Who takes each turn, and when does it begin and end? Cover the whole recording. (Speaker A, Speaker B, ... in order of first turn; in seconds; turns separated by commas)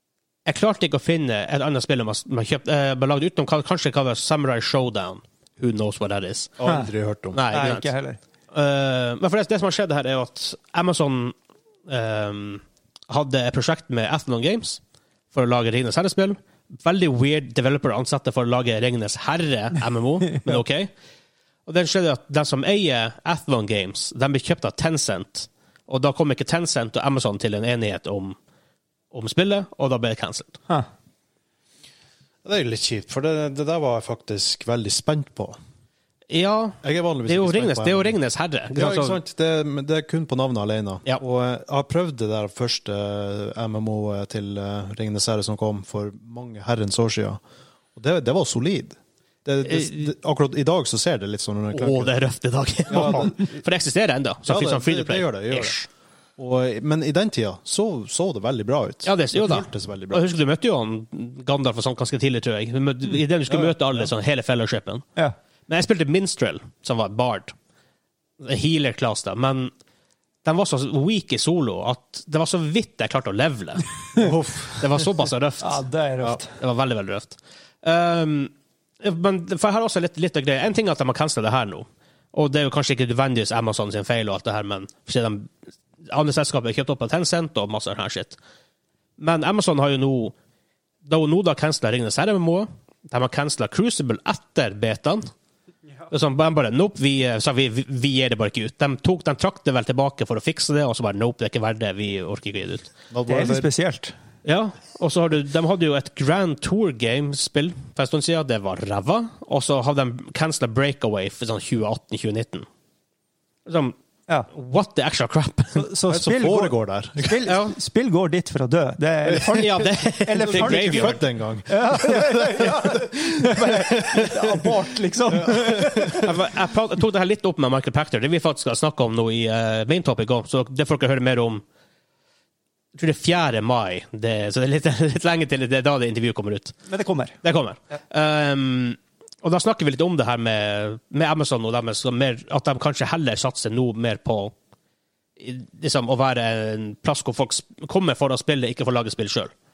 Speaker A: 0.5-6.7, Speaker B: 6.6-7.4, Speaker A: 7.3-7.8, Speaker C: 7.5-8.2, Speaker A: 8.5-11.3, Speaker A: 11.9-14.8, Speaker A: 15.3-20.9, Speaker A: 21.7-28.4, Speaker A: 29.1-30.6, Speaker B: 32.4-35.6, Speaker A: 36.3-39.2, Speaker B: 36.8-38.1, Speaker B: 38.8-47.4, Speaker B: 48.0-52.1, Speaker A: 49.7-50.1, Speaker A: 51.7-55.9, Speaker B: 52.9-53.6, Speaker B: 54.5-55.8, Speaker B: 56.4-60.2, Speaker A: 59.0-65.0, Speaker A: 65.7-67.5, Speaker A: 68.4-69.7, Speaker A: 70.4-74.2, Speaker B: 74.2-75.0, Speaker A: 74.8-75.8, Speaker C: 75.6-76.5, Speaker A: 76.4-85.5, Speaker A: 86.1-88.4, Speaker A: 89.2-90.3, Speaker A: 91.0-95.3, Speaker A: 96.1-102.9, Speaker B: 103.1-103.7, Speaker C: 103.3-104.1, Speaker A: 104.4-112.7, Speaker A: 113.7-113.9, Speaker A: 114.5-115.8, Speaker C: 115.8-126.3, Speaker B: 116.1-117.5, Speaker A: 117.5-117.8, Speaker A: 119.4-121.2, Speaker B: 120.5-124.8, Speaker B: 125.3-126.3, Speaker A: 126.1-131.6, Speaker A: 132.9-136.8, Speaker C: 136.9-137.4, Speaker A: 137.4-144.5, Speaker A: 145.4-149.5